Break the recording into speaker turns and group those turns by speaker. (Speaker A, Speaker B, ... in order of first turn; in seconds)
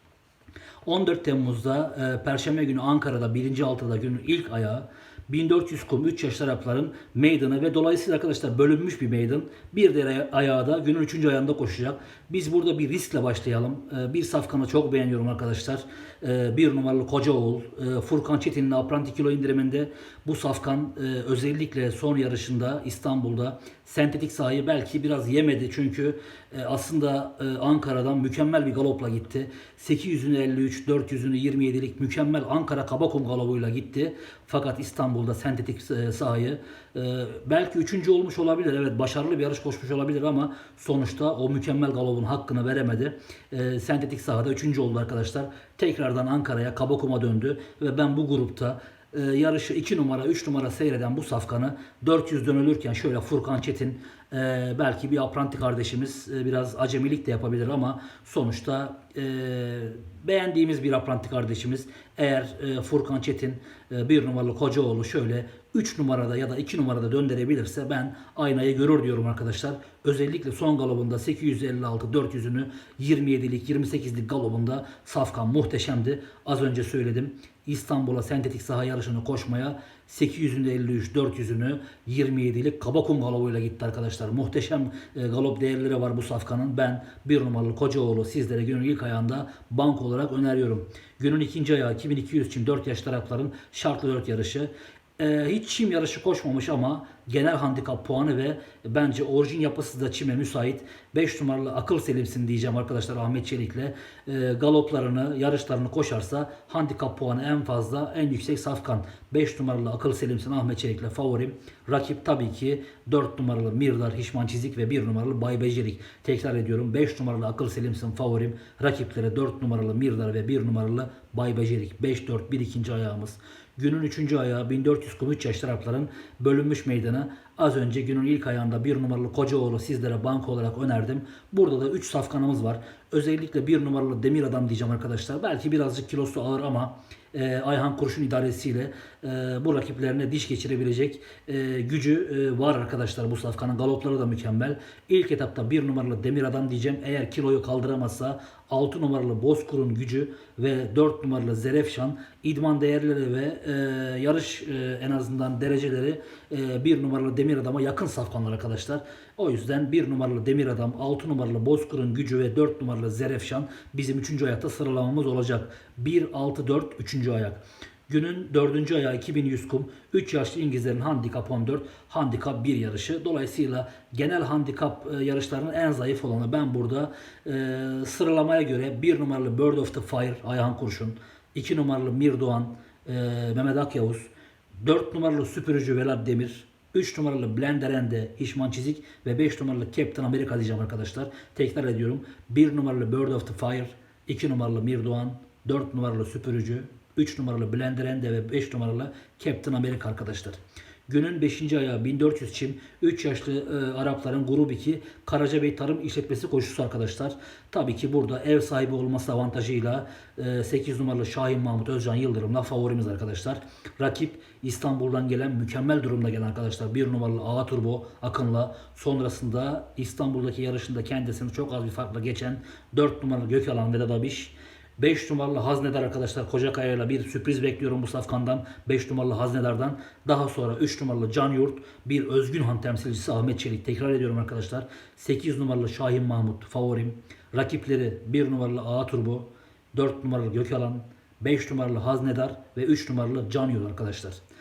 Speaker A: 0.8-184.3, 184.8-244.4